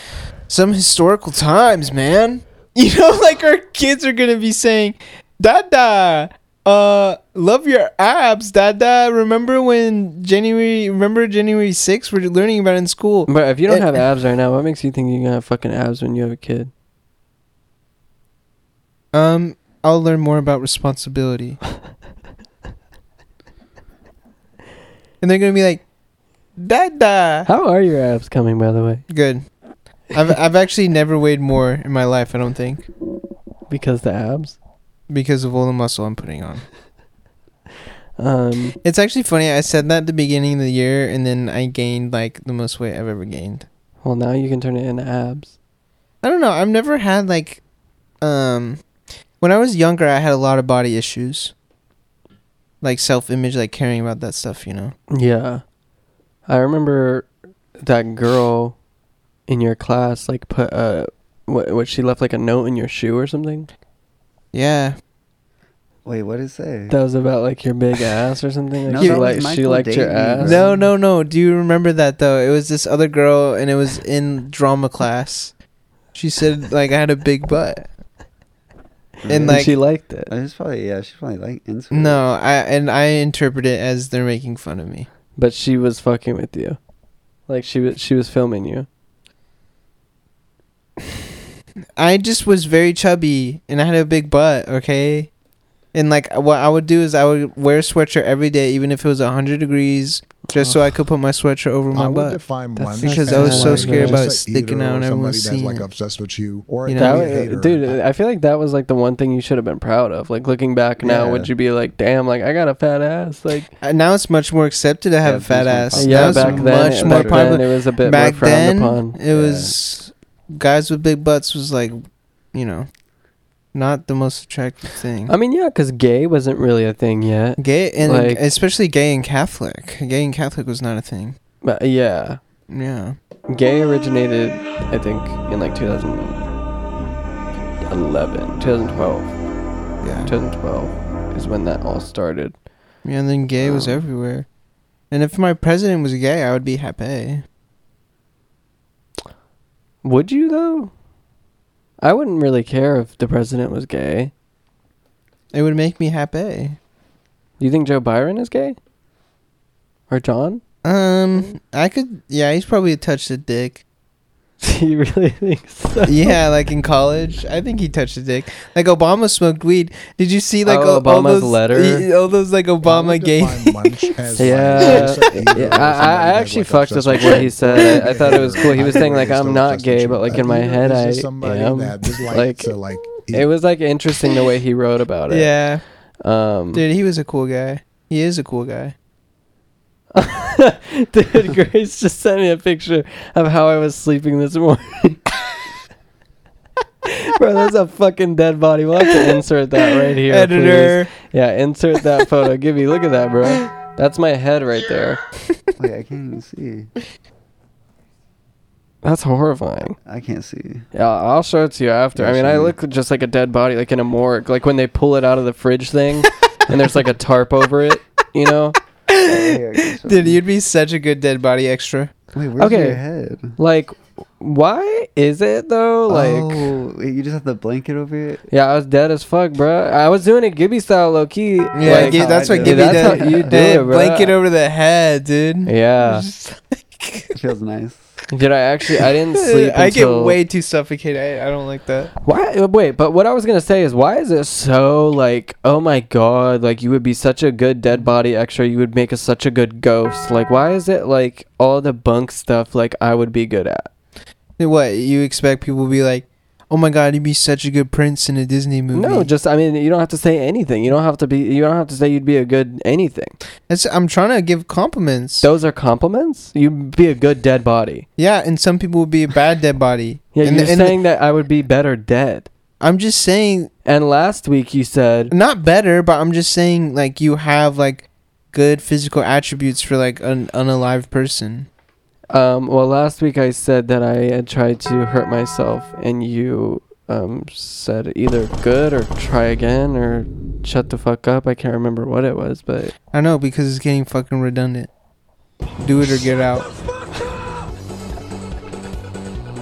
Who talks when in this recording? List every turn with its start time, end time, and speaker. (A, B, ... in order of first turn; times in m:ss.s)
0:00.5-0:14.0 A
0:13.3-0:16.7 B
0:19.1-0:21.6 A
0:25.2-0:25.8 A
0:26.6-0:27.5 A
0:27.5-0:29.0 B
0:29.1-0:29.4 A
0:30.1-0:32.8 A
0:33.7-0:34.6 B
0:35.1-0:36.7 A
0:38.2-0:38.8 B
0:38.8-0:43.7 A
0:44.0-0:45.6 B
0:46.2-0:47.6 A
0:48.2-0:48.8 A
0:49.4-0:51.5 A
0:52.8-0:55.0 A
0:55.1-0:55.6 B
0:56.5-0:57.3 B
0:57.8-0:58.8 B
0:59.5-1:03.7 B
1:04.5-1:05.0 A
1:06.0-1:07.0 C
1:06.9-1:10.6 B
1:08.9-1:10.9 C
1:09.0-1:09.4 A
1:10.4-1:15.5 A
1:16.1-1:17.9 A
1:19.2-1:22.2 C
1:19.3-1:19.7 A
1:19.3-1:20.3 B
1:21.9-1:25.1 A
1:25.4-1:26.8 B
1:27.5-1:28.9 B
1:32.0-1:35.3 A
1:35.9-1:42.4 A
1:40.6-1:40.8 B
1:41.9-1:48.0 D
1:42.8-1:44.3 B
1:43.0-1:45.9 A
1:46.8-1:47.4 A
1:46.9-1:53.7 B
1:51.0-1:51.5 C
1:53.8-2:02.0 A
1:55.2-1:57.6 C
1:56.0-1:59.2 B
1:59.3-1:59.8 C
2:02.5-2:02.9 A
2:03.7-2:05.4 A
2:05.3-2:08.4 B
2:07.6-2:11.4 A
2:11.6-2:12.4 B
2:12.7-2:13.2 A
2:13.5-2:16.4 B
2:17.9-2:19.3 B
2:20.0-2:20.3 A
2:20.2-2:22.6 B
2:23.0-2:24.5 A
2:23.6-2:24.0 B
2:25.1-2:27.4 A
2:30.0-2:30.9 B
2:32.0-2:34.3 B
2:35.5-2:36.8 A
2:37.6-2:38.8 B
2:40.1-2:40.6 B
2:40.8-2:43.8 A
2:44.6-2:46.4 B
2:46.1-2:54.1 A
2:50.6-2:52.1 B
2:52.8-3:03.5 D
2:54.4-3:02.7 B
2:54.9-2:55.2 A
2:58.3-2:58.8 C
3:03.3-3:05.5 B
3:05.3-3:05.8 A
3:06.2-3:06.8 B
3:06.7-3:08.9 A
3:10.1-3:15.2 B
3:17.1-3:25.2 B
3:20.3-3:21.1 A
3:25.8-3:26.9 C
3:29.0-3:30.0 B
3:30.0-3:30.9 C
3:30.9-3:38.8 B
3:32.2-3:32.8 C
3:39.1-3:42.1 A
3:39.2-3:40.4 C
3:42.3-3:43.6 C
3:42.6-3:43.0 B
3:43.6-3:46.7 B
3:46.1-3:48.5 C
3:48.5-3:54.3 B
3:51.8-3:57.3 A
3:51.8-3:53.6 C
3:55.7-3:56.3 B
3:57.4-3:58.2 C
3:58.3-4:00.4 B
3:59.4-4:02.1 A
4:02.2-4:13.9 B
4:14.6-4:19.3 A
4:18.9-4:23.4 B
4:23.7-4:25.5 A
4:25.4-4:28.1 B
4:28.2-4:31.0 A
4:30.4-4:32.5 B
4:32.8-4:33.7 A
4:33.9-4:35.3 B
4:35.3-4:41.7 A
4:42.3-4:52.9 B
4:53.1-4:54.9 A
4:55.8-4:56.7 A